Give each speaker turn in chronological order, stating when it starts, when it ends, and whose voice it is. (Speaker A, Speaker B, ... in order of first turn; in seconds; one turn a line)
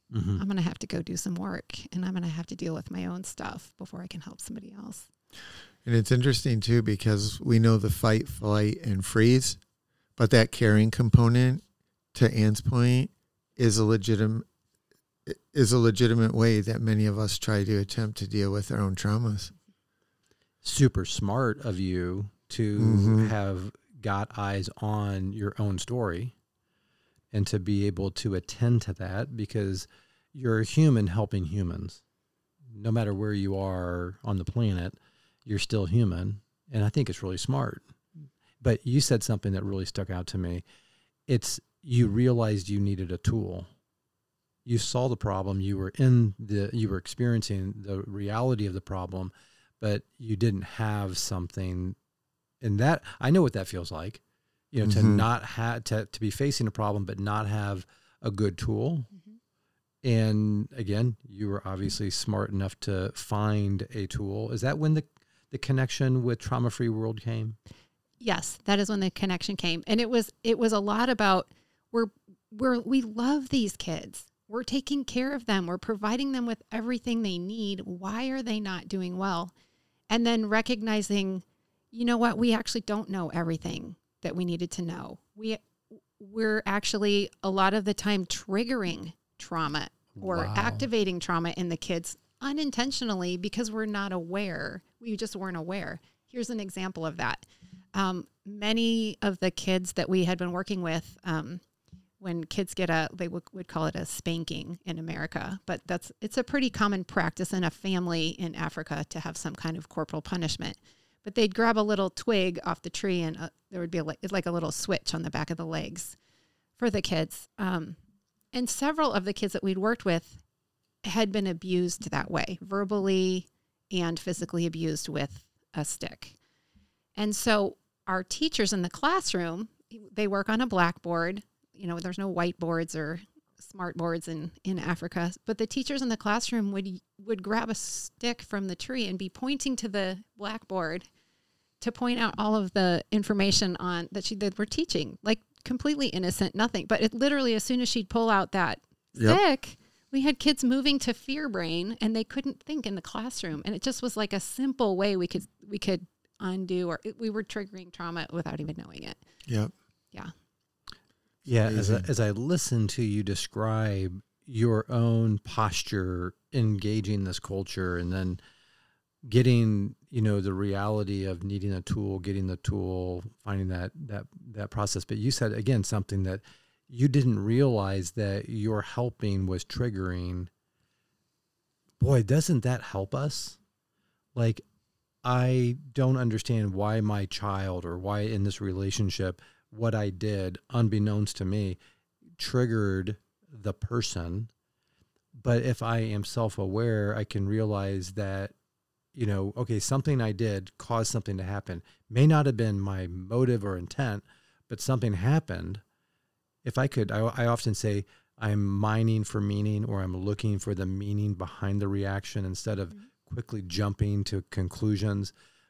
Speaker A: 0.1-0.4
Speaker B: 0.4-5.1
Speaker C: 5.8-9.6
Speaker C: 10.2-11.6
Speaker C: 12.1-14.5
Speaker C: 15.2-19.5
Speaker A: 20.6-26.3
Speaker C: 22.8-23.3
Speaker A: 27.3-32.0
Speaker A: 32.7-37.9
Speaker A: 38.6-40.6
Speaker A: 41.3-43.7
Speaker A: 44.6-52.0
Speaker A: 52.6-59.1
Speaker C: 54.8-55.2
Speaker A: 60.0-67.6
Speaker B: 68.2-79.5
Speaker B: 80.1-85.6
Speaker B: 86.2-101.6
Speaker A: 90.1-90.9
Speaker B: 102.2-116.2
Speaker B: 116.8-118.0
Speaker B: 118.5-120.4
Speaker B: 121.0-126.4
Speaker B: 127.2-141.1
Speaker B: 141.8-159.2
Speaker C: 159.5-159.7
Speaker C: 161.5-162.1
Speaker A: 161.5-168.4
Speaker A: 169.2-180.5
Speaker A: 182.0-183.6
Speaker A: 184.3-184.6
Speaker A: 185.2-191.8
Speaker A: 192.4-194.5
Speaker A: 195.3-198.5
Speaker A: 199.1-205.8
Speaker A: 206.6-215.3